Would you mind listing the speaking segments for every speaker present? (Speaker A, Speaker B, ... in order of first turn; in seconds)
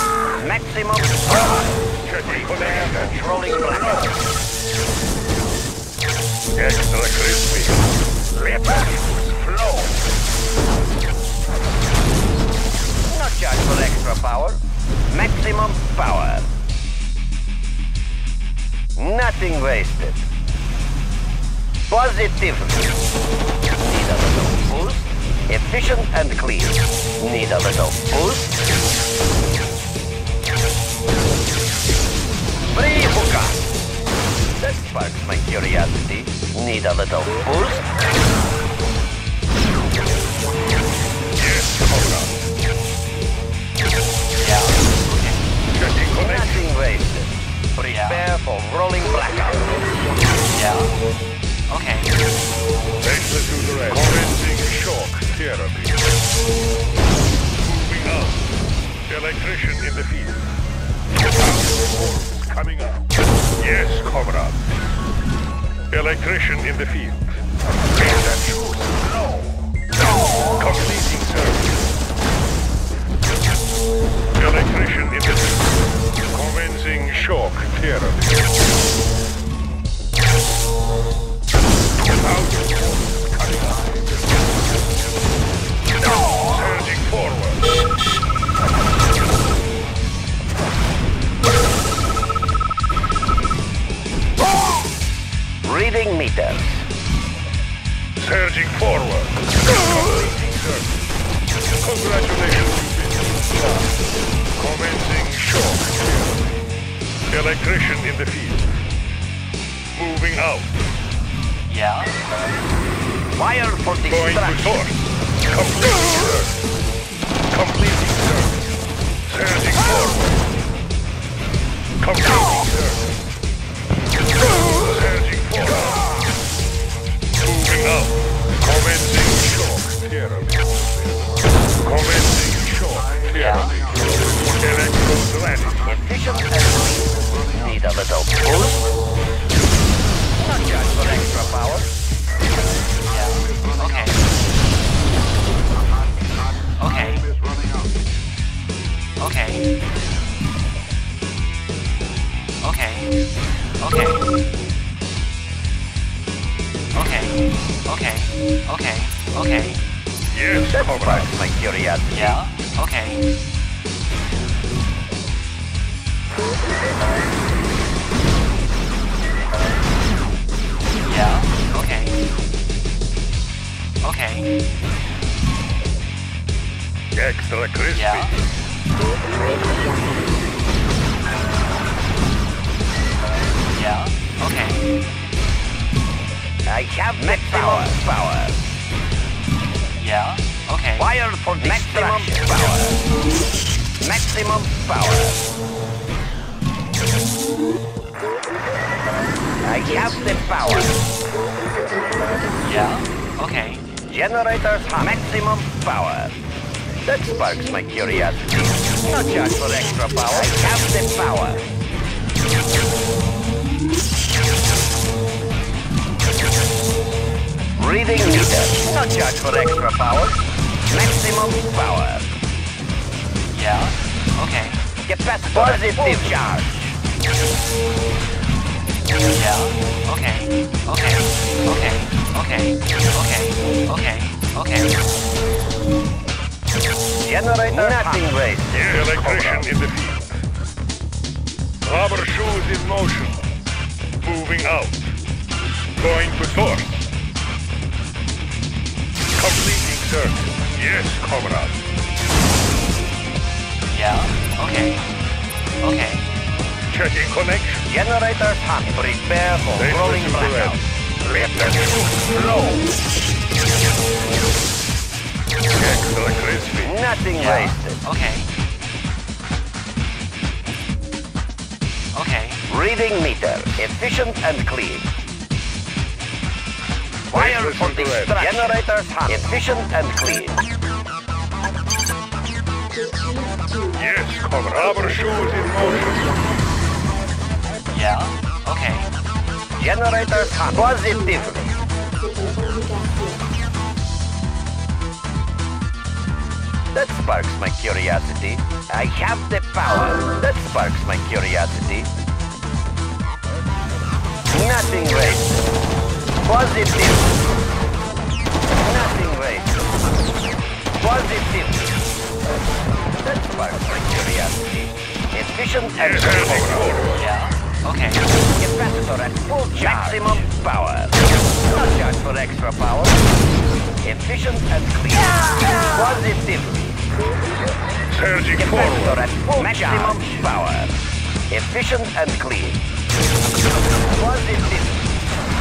Speaker A: 0.4-4.2, 13.1-14.6, 15.1-16.5, 19.0-20.2, 21.9-22.9, 23.8-28.6, 32.7-33.6, 34.6-37.9, 46.1-49.7, 95.6-96.8, 113.3-114.6, 135.9-138.8, 140.5-141.9, 160.7-162.4, 186.7-188.6, 191.0-193.0, 194.0-195.4, 199.6-200.9, 204.1-206.3, 207.1-211.7, 217.8-222.3, 225.1-226.7, 237.2-239.7, 257.9-260.8, 266.8-268.0, 272.7-275.1, 277.3-280.6, 289.8-291.7, 296.9-302.1, 304.5-305.6, 306.4-307.2, 308.8-309.8, 311.0-311.9, 313.2-317.0, 318.6-323.2, 324.0-327.0, 328.6-330.9, 331.5-332.8, 334.1-335.1
Speaker B: 2.0-3.8, 6.5-7.8, 41.3-42.5, 45.7-46.6, 53.0-56.0, 57.5-58.4, 59.1-60.5, 61.4-63.0, 63.6-64.6, 65.9-67.4, 70.6-71.8, 74.3-75.8, 76.3-78.5, 82.0-84.2, 86.5-87.6, 98.2-100.9, 101.8-103.9, 104.6-106.6, 107.3-108.7, 109.9-110.7, 114.1-116.5, 117.5-118.7, 119.3-120.4, 122.0-123.0, 124.8-126.1, 127.4-130.6, 131.8-135.9, 160.3-161.3, 177.1-178.3, 238.7-240.3, 241.8-243.4, 244.2-245.1, 246.0-246.9, 249.3-251.8, 256.9-257.8, 259.7-262.1, 265.7-267.0, 277.3-278.7, 283.9-286.4, 315.9-317.3, 328.1-329.5
Speaker C: 44.4-45.4, 47.8-48.3, 50.5-50.9, 51.7-52.2, 111.7-112.1, 133.3-133.7, 143.1-144.2, 146.8-147.3, 149.2-149.6, 152.6-153.1, 153.8-154.2, 156.9-159.8, 162.1-163.2, 171.0-172.2, 174.0-174.5, 177.9-178.3, 183.7-184.8, 190.0-191.1, 191.8-192.3, 202.6-203.8, 223.5-224.8, 229.3-235.0, 253.9-255.0, 255.8-256.2, 267.3-268.5, 272.1-272.6, 287.9-289.1, 317.1-318.2